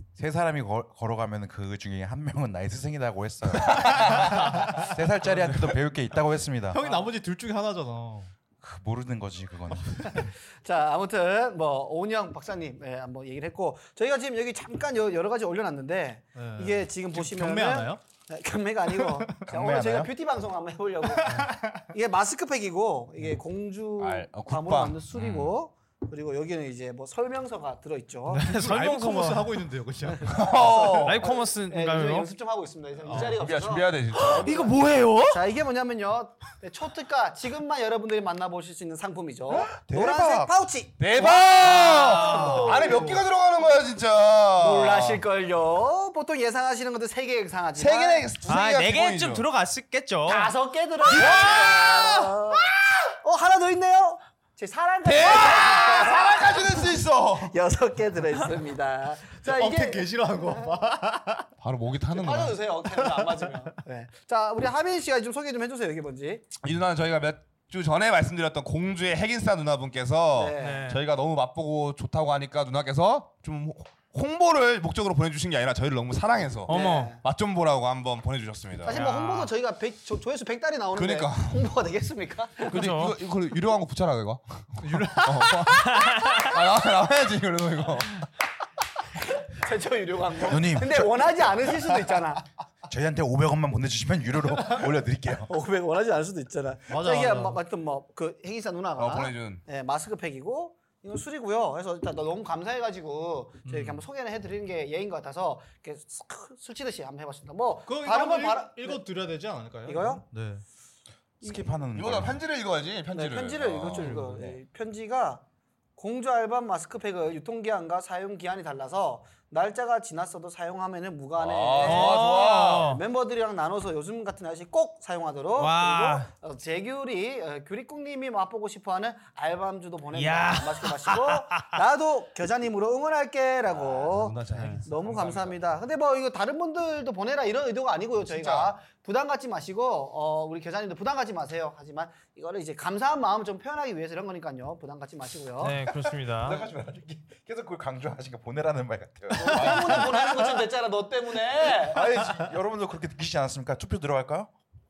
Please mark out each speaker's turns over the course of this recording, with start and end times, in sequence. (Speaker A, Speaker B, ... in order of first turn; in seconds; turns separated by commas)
Speaker A: 0.1-6.8, Speaker B: 3.7-4.4, Speaker C: 6.7-8.3, Speaker D: 6.8-7.1, Speaker A: 8.6-10.3, Speaker D: 10.1-28.5, Speaker C: 16.4-18.0, Speaker C: 18.9-19.4, Speaker A: 19.5-20.1, Speaker C: 21.1-21.9, Speaker B: 24.0-25.5, Speaker E: 28.3-29.5, Speaker C: 28.5-30.4, Speaker D: 30.1-43.2, Speaker B: 30.3-31.2, Speaker E: 31.0-32.3, Speaker C: 33.1-33.4, Speaker B: 33.1-34.7, Speaker E: 34.1-35.4, Speaker B: 39.8-45.2, Speaker E: 41.8-43.0, Speaker D: 44.6-48.3, Speaker B: 47.8-49.4, Speaker E: 48.5-50.5, Speaker D: 50.3-60.5, Speaker B: 51.1-51.9, Speaker C: 51.1-52.5, Speaker B: 55.0-57.5, Speaker C: 59.4-61.5, Speaker B: 61.6-62.6, Speaker D: 62.1-66.5, Speaker C: 62.9-63.7, Speaker B: 66.6-79.0, Speaker D: 70.3-71.0, Speaker E: 70.6-71.0, Speaker E: 76.7-77.2, Speaker D: 76.7-77.2, Speaker D: 78.8-82.8, Speaker E: 78.9-79.5, Speaker B: 81.0-81.6, Speaker E: 82.7-83.2, Speaker B: 82.7-88.3, Speaker C: 84.8-85.8, Speaker E: 85.8-86.5, Speaker D: 89.3-92.4, Speaker A: 90.4-91.3, Speaker A: 92.9-95.5, Speaker D: 95.5-109.0, Speaker C: 96.9-97.6, Speaker B: 99.0-99.6, Speaker C: 103.7-104.0, Speaker C: 107.9-110.6, Speaker D: 109.8-110.2, Speaker A: 111.4-112.4, Speaker B: 111.9-114.5, Speaker D: 113.1-115.4, Speaker C: 114.0-114.4, Speaker A: 114.1-114.5, Speaker D: 116.0-145.8, Speaker B: 121.4-122.9, Speaker E: 121.8-123.0, Speaker E: 125.6-126.3, Speaker E: 130.1-131.7, Speaker B: 133.7-135.6, Speaker E: 134.5-134.8, Speaker B: 138.2-138.7, Speaker E: 145.6-146.7, Speaker A: 146.3-150.3, Speaker D: 149.3-152.1, Speaker B: 149.6-150.0, Speaker A: 151.6-154.5